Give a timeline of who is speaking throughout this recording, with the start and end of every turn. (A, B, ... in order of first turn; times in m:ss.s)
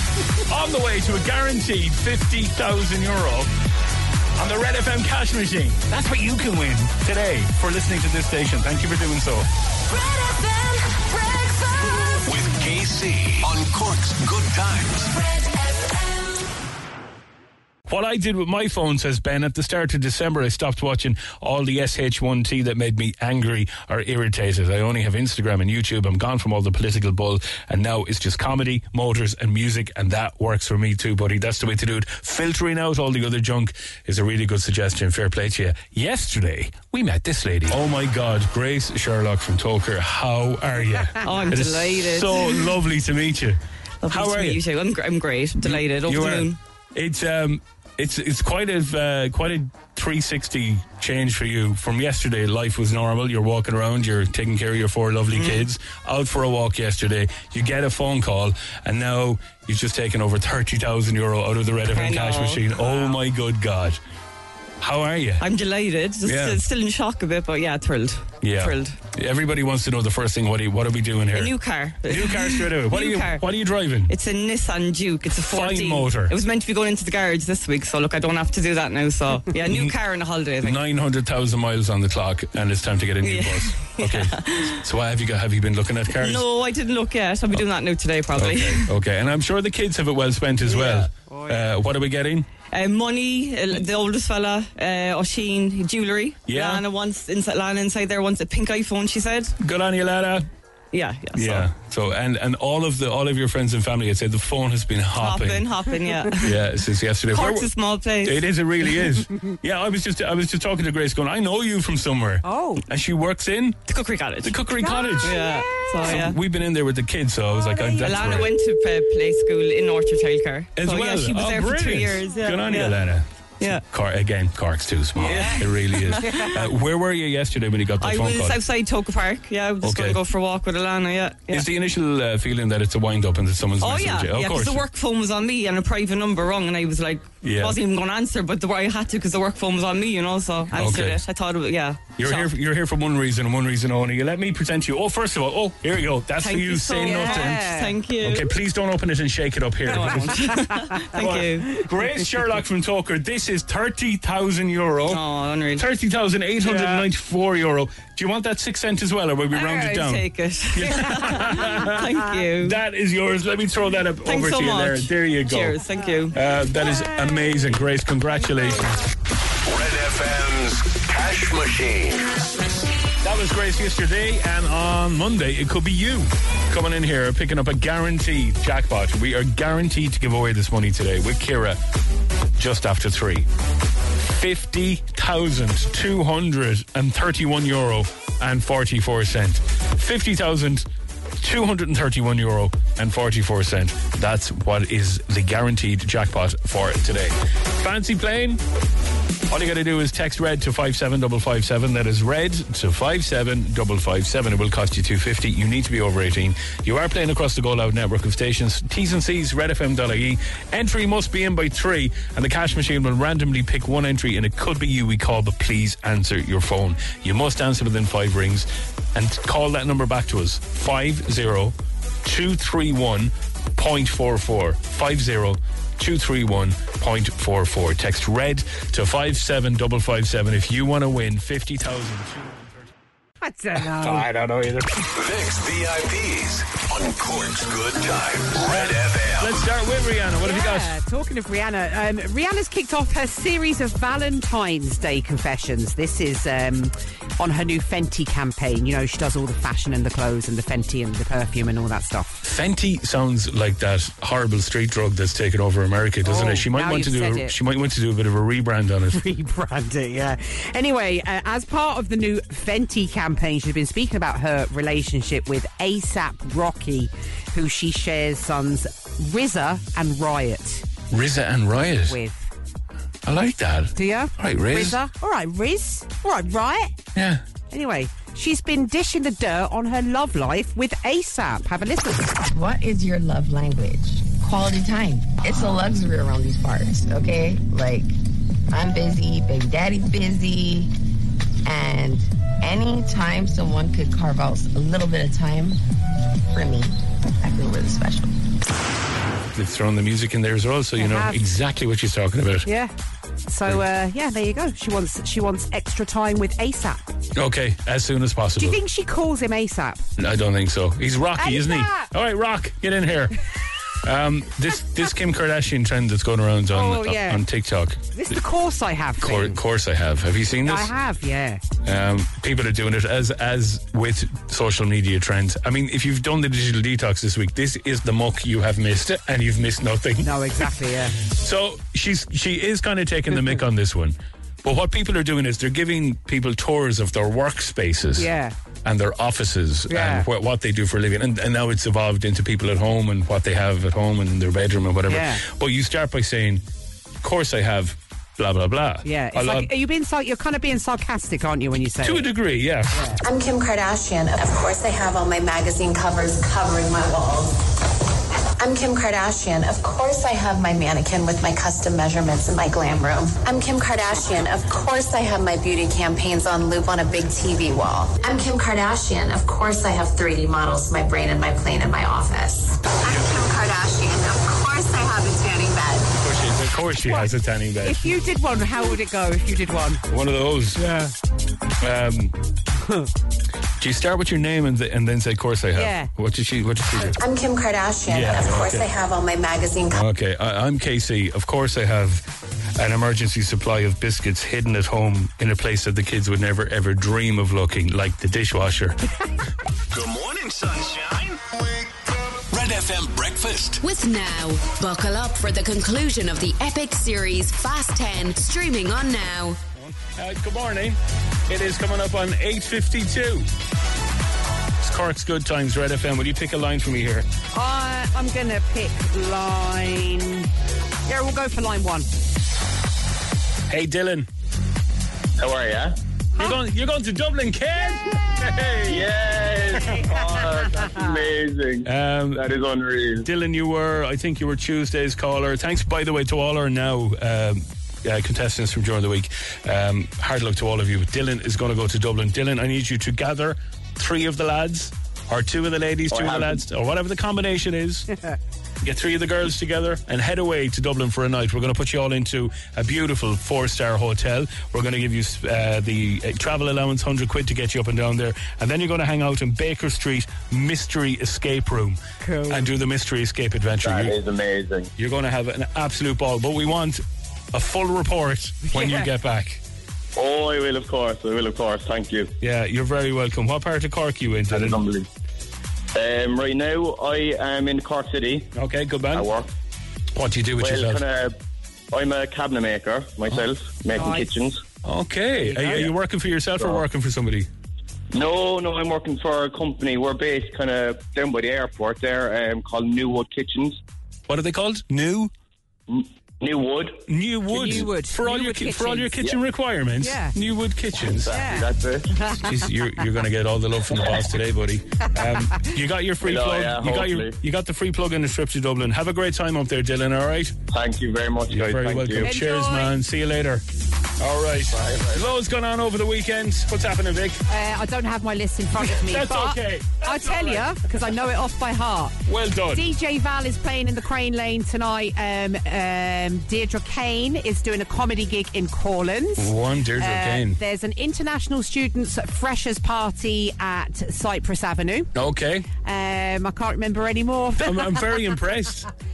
0:00.5-0:03.5 A
0:04.4-0:09.5 A
0:12.2-0:15.1 B
0:17.9-0:44.6 A
0:41.2-0:42.5 C
0:44.0-0:46.6 C
0:45.6-1:04.0 A
0:55.3-0:55.6 C
1:01.9-1:03.2 C
1:04.8-1:05.4 A
1:05.4-1:09.0 C
1:06.2-1:06.6 A
1:08.4-1:14.1 A
1:11.3-1:13.4 C
1:14.1-1:20.8 C
1:15.4-1:16.3 A
1:19.6-1:19.9 A
1:20.6-1:26.5 A
1:23.2-1:24.8 C
1:26.1-1:28.9 C
1:28.3-1:32.4 A
1:30.8-1:31.0 C
1:31.3-1:31.6 D
1:32.7-1:39.5 C
1:36.5-1:36.8 A
1:39.6-1:40.5 A
1:40.9-1:41.7 C
1:41.3-1:45.7 A
1:45.2-1:46.5 C
1:46.4-1:47.7 A
1:47.3-1:48.4 C
1:48.2-1:53.8 A
1:52.4-1:52.8 D
1:53.9-1:54.6 C
1:54.4-1:58.5 A
1:54.8-1:56.2 D
1:55.2-1:56.4 C
1:57.5-1:58.5 D
1:58.0-2:03.0 C
2:00.8-2:08.6 A
2:05.2-2:05.6 D
2:06.1-2:06.6 D
2:08.0-2:11.7 C
2:09.8-2:10.2 A
2:11.5-2:14.8 A
2:13.8-2:22.5 C
2:17.4-2:17.8 A
2:20.7-2:21.2 A
2:22.2-2:35.2 A
2:26.4-2:28.5 C
2:27.0-2:27.9 D
2:29.9-2:31.7 C
2:29.9-2:32.2 D
2:35.1-2:35.8 C
2:35.7-2:45.8 A
2:36.6-2:37.0 D
2:39.5-2:42.8 C
2:40.8-2:42.1 D
2:44.2-2:46.3 C
2:45.9-2:47.8 D
2:46.3-2:49.0 A
2:48.4-2:48.8 D
2:49.6-2:52.3 B
2:53.2-3:01.8 A
3:02.6-3:03.5 A
3:04.3-3:10.8 A
3:11.4-3:18.6 A
3:19.5-3:52.8 A
3:53.4-3:54.3 D
3:54.0-3:55.0 A
3:55.1-3:59.6 B
3:58.6-4:01.0 A
4:00.4-4:12.4 D
4:12.4-4:19.2 A
4:16.2-4:17.6 D
4:19.1-4:30.8 D
4:31.1-4:32.2 A
4:32.1-4:32.5 D
4:33.2-4:35.0 A
4:33.9-4:36.9 D
4:37.1-4:37.4 A
4:37.7-4:42.3 D
4:42.5-4:48.1 E
4:48.7-4:50.9 E
4:51.6-4:55.8 E
4:56.5-4:58.3 E
4:59.5-5:02.7 A
5:01.0-5:01.4 D
5:02.6-5:02.9 D
5:03.5-5:07.1 D
5:07.4-5:08.8 A
5:08.6-5:10.0 D
5:10.2-5:13.4 A
5:11.4-5:12.1 D
5:14.0-5:18.3 A
5:16.7-5:17.4 D
5:18.1-5:19.6 D
5:19.2-5:20.9 A
5:20.6-5:21.6 D
5:21.8-5:38.3 A
5:30.2-5:31.2 D
5:38.2-5:38.5 D
5:38.8-5:46.6 A
5:39.9-5:40.2 D
5:45.1-5:45.4 D
5:47.2-5:49.7 A
5:49.0-5:52.2 D
5:52.0-5:52.9 A
5:52.9-5:53.2 D
5:53.2-5:57.6 F
5:58.6-6:16.1 F
6:16.2-6:18.1 A
6:17.1-6:20.0 D
6:20.1-6:20.8 A
6:20.8-6:21.1 D
6:21.8-6:22.3 A
6:23.8-6:27.2 A
6:25.7-6:26.1 D
6:27.2-6:30.0 F
6:28.1-6:28.9 A
6:29.9-6:32.2 A
6:32.8-6:39.0 A
6:39.9-6:41.4 B
6:42.5-6:43.8 B
6:43.8-6:49.6 G
6:49.8-6:53.5 A
6:54.8-6:57.2 A
6:57.5-7:00.5 D
7:01.1-7:02.1 D
7:03.7-7:04.3 A
7:05.4-7:05.9 H
7:06.4-7:09.0 A
7:08.9-7:13.3 H
7:09.9-7:11.1 D
7:11.8-7:12.4 A
7:13.2-7:28.1 A
7:26.1-7:26.6 H
7:28.8-7:44.2 A
7:42.2-7:42.7 D
7:43.8-7:44.9 H
7:45.0-7:47.0 A
7:47.5-7:49.6 A
7:48.6-7:49.0 D
7:50.2-7:52.3 H
7:52.4-7:54.8 A
7:54.5-7:55.1 H
7:55.9-7:58.5 H
7:58.5-7:59.3 A
7:59.1-7:59.5 H
8:00.1-8:01.0 A
8:00.6-8:01.3 H
8:01.9-8:04.6 H
8:04.0-8:04.3 D
8:04.8-8:07.5 A
8:05.4-8:05.9 D
8:08.1-8:13.8 H
8:14.3-8:15.3 A
8:15.9-8:17.0 H
8:17.1-8:21.4 A
8:17.5-8:19.2 D
8:20.0-8:20.3 D
8:21.2-8:22.1 H
8:21.3-8:22.6 D
8:22.4-8:30.5 A
8:26.2-8:27.3 H
8:30.7-8:32.3 H
8:31.5-8:33.6 A
8:32.2-8:33.0 D
8:34.2-8:37.4 A
8:37.5-8:42.2 D
8:38.8-8:40.8 A
8:42.2-8:42.8 A
8:42.7-8:55.1 D
8:49.4-8:50.6 A
8:55.1-8:55.7 A
8:55.8-8:58.2 D
8:57.6-8:58.9 A